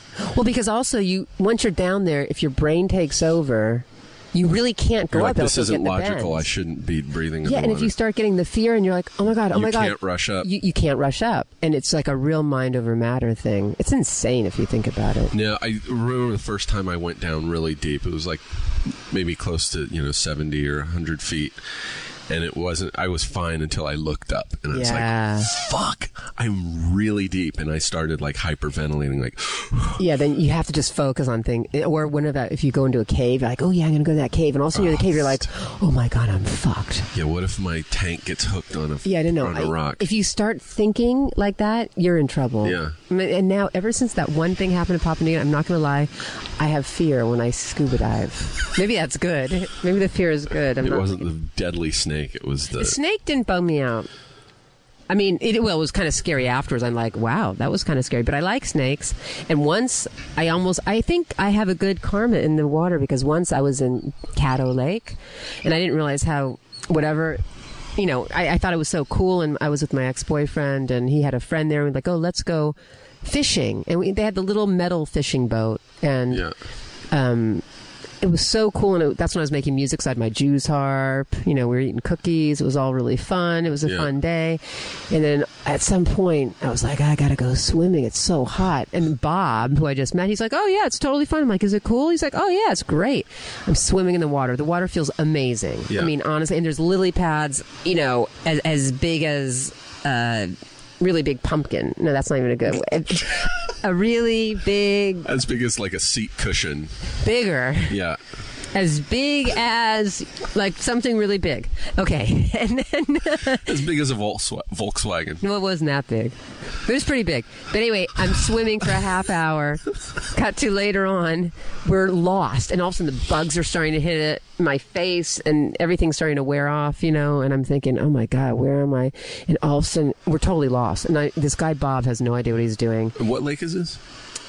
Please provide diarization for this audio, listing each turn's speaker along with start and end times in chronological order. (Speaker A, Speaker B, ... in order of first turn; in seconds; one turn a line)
Speaker A: 0.3-6.5
Speaker B: 5.1-7.9
Speaker A: 7.4-15.3
Speaker B: 9.5-10.5
Speaker B: 15.3-21.6
Speaker B: 22.3-30.0
Speaker A: 24.7-25.5
Speaker A: 30.0-37.1
Speaker B: 34.7-35.5
Speaker B: 37.1-40.0
Speaker A: 39.0-51.2
Speaker B: 42.6-43.0
Speaker B: 50.8-53.0
Speaker A: 52.8-54.1
Speaker A: 55.1-67.4
Speaker A: 68.0-76.5
Speaker A: 77.1-77.6
Speaker A: 78.2-105.3
Speaker B: 105.2-106.9
Speaker A: 107.2-108.0
Speaker B: 107.9-108.2
Speaker A: 108.7-113.7
Speaker B: 113.6-115.4
Speaker A: 115.4-133.2
Speaker B: 133.2-134.0